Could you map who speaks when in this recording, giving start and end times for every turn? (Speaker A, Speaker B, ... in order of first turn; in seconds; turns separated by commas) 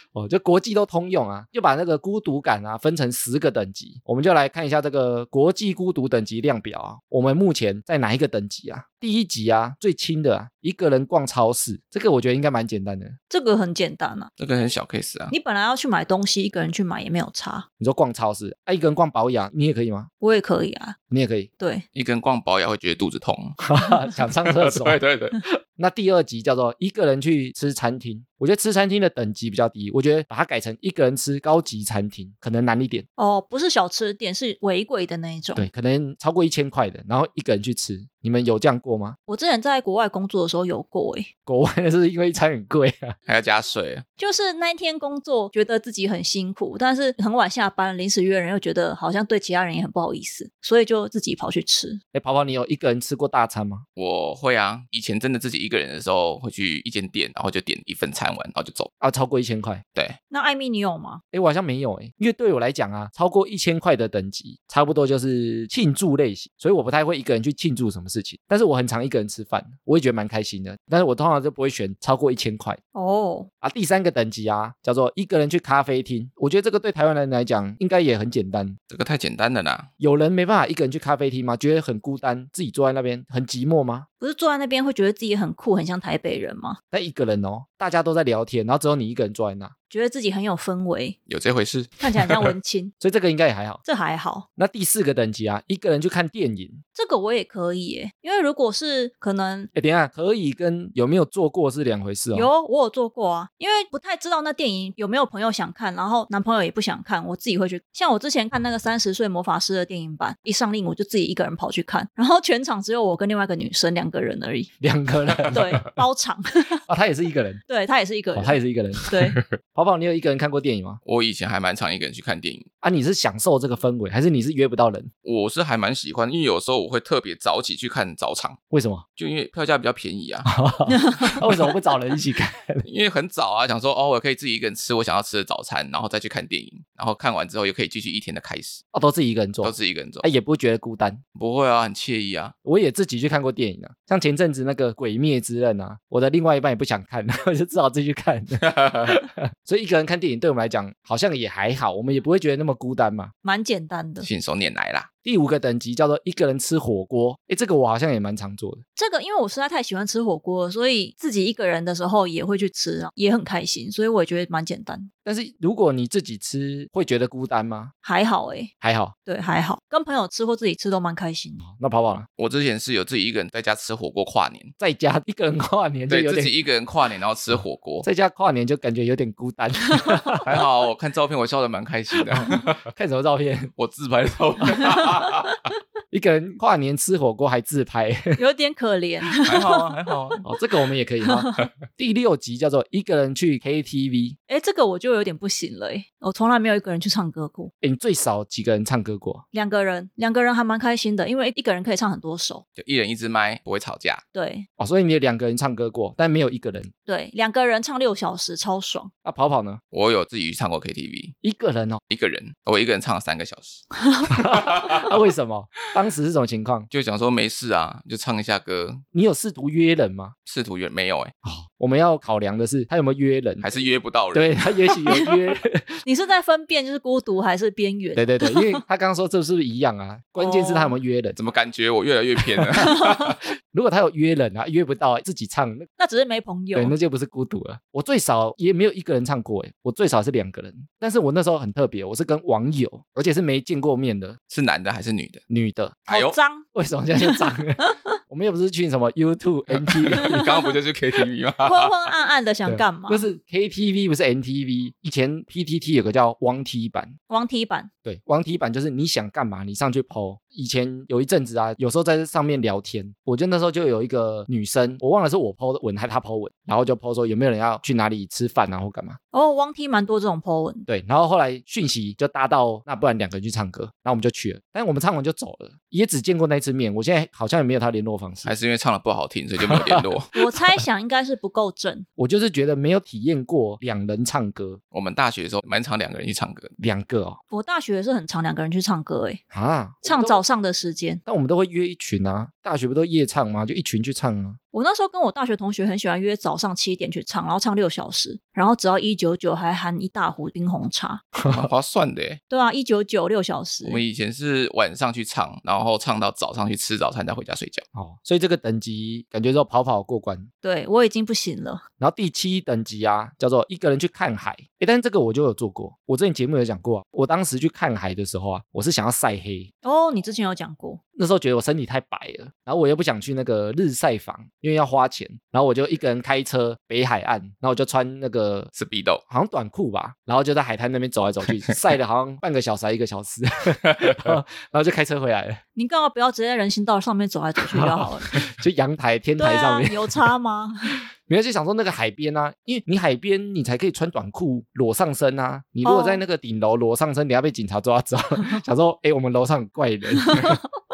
Speaker A: 0.1-13.2, Speaker B: 13.3-14.3, Speaker C: 14.4-15.3, Speaker B: 15.3-17.6, Speaker A: 17.8-20.1, Speaker B: 20.2-21.0, Speaker A: 21.1-21.5, Speaker C: 21.9-23.6, Speaker A: 23.6-25.0, Speaker C: 24.4-25.4, Speaker A: 25.8-33.0, Speaker B: 33.2-35.7, Speaker A: 35.5-39.2, Speaker B: 39.3-41.3, Speaker A: 41.5-43.1, Speaker C: 43.2-44.0, Speaker B: 44.2-52.0, Speaker A: 52.1-53.8, Speaker C: 54.0-58.9, Speaker A: 59.0-59.8, Speaker B: 60.3-61.2, Speaker A: 61.3-72.8, Speaker B: 72.9-73.5, Speaker A: 73.6-78.8, Speaker C: 78.9-79.9, Speaker A: 80.0-84.0, Speaker B: 84.2-86.8, Speaker A: 86.9-89.7, Speaker B: 89.9-91.2, Speaker C: 91.3-92.5, Speaker B: 92.0-92.9, Speaker A: 93.0-93.8, Speaker B: 93.8-94.5, Speaker A: 94.6-96.8, Speaker B: 96.9-99.7, Speaker A: 99.7-102.5, Speaker B: 102.3-114.7, Speaker A: 114.8-115.9, Speaker B: 115.5-116.8, Speaker A: 116.9-117.6, Speaker B: 117.7-119.4, Speaker A: 118.3-119.1, Speaker A: 119.7-121.0, Speaker C: 121.0-122.7, Speaker A: 122.8-125.1, Speaker C: 125.2-128.6, Speaker A: 128.7-129.0, Speaker C: 129.2-130.5, Speaker A: 130.4-132.8, Speaker B: 130.9-131.4, Speaker C: 132.8-138.8, Speaker A: 138.9-141.2, Speaker C: 139.6-140.2, Speaker C: 141.3-142.5, Speaker A: 142.6-153.3, Speaker C: 148.6-149.1, Speaker B: 153.4-154.3, Speaker C: 154.2-155.1, Speaker A: 155.2-158.8, Speaker B: 159.0-165.1, Speaker A: 165.2-167.9, Speaker B: 168.0-168.7, Speaker A: 168.8-169.1, Speaker B: 169.2-171.6, Speaker A: 171.6-172.3, Speaker C: 172.4-174.7, Speaker A: 174.8-176.5, Speaker C: 176.1-178.1, Speaker A: 178.0-180.5, Speaker C: 180.4-182.8, Speaker A: 182.3-183.7, Speaker C: 183.8-185.6, Speaker A: 186.1-188.4, Speaker B: 188.4-190.4, Speaker C: 189.4-190.4, Speaker A: 190.4-194.4, Speaker B: 191.2-191.6, Speaker B: 194.5-197.7, Speaker A: 197.8-199.4, Speaker B: 199.5-202.6, Speaker C: 202.8-204.2, Speaker B: 204.3-204.7, Speaker A: 204.8-206.9, Speaker B: 207.1-209.1, Speaker A: 209.2-209.8, Speaker C: 209.9-211.3, Speaker A: 211.4-212.0, Speaker C: 212.1-213.8, Speaker A: 214.3-216.9, Speaker C: 214.5-215.1, Speaker C: 216.9-219.0, Speaker A: 219.1-220.3, Speaker C: 220.4-221.3, Speaker A: 221.4-223.6, Speaker C: 223.6-225.3, Speaker A: 224.3-226.0, Speaker B: 226.0-228.8, Speaker A: 228.1-231.4, Speaker B: 230.4-231.0, Speaker C: 231.3-233.4, Speaker A: 232.7-235.9, Speaker B: 236.0-236.9, Speaker A: 236.7-244.4, Speaker C: 244.5-245.4, Speaker A: 245.5-246.0, Speaker C: 246.1-246.3, Speaker B: 246.1-246.7, Speaker A: 246.7-250.4, Speaker B: 247.2-247.9, Speaker C: 249.7-252.1, Speaker B: 250.2-250.6, Speaker B: 251.6-253.2, Speaker A: 252.7-257.1, Speaker B: 257.3-257.9, Speaker A: 258.0-269.2, Speaker B: 269.3-270.9, Speaker A: 270.9-278.5, Speaker C: 278.4-280.3, Speaker A: 279.7-280.0, Speaker B: 280.3-282.1, Speaker A: 282.2-284.8, Speaker C: 284.9-286.7, Speaker A: 286.8-287.4, Speaker B: 287.5-289.4, Speaker A: 289.5-290.4, Speaker B: 290.0-291.2, Speaker A: 291.2-294.6, Speaker B: 294.7-301.2, Speaker A: 301.4-301.7, Speaker C: 301.4-302.4, Speaker B: 302.5-304.0, Speaker C: 303.8-307.8, Speaker A: 307.9-310.5, Speaker B: 310.6-311.8, Speaker A: 312.0-319.7, Speaker B: 319.8-321.0, Speaker A: 321.1-328.7, Speaker C: 328.7-329.2, Speaker A: 329.3-335.6, Speaker C: 333.9-334.3, Speaker B: 335.8-338.4, Speaker A: 337.7-340.3, Speaker B: 339.4-341.0, Speaker A: 341.3-350.6, Speaker B: 345.8-346.2, Speaker B: 350.3-350.5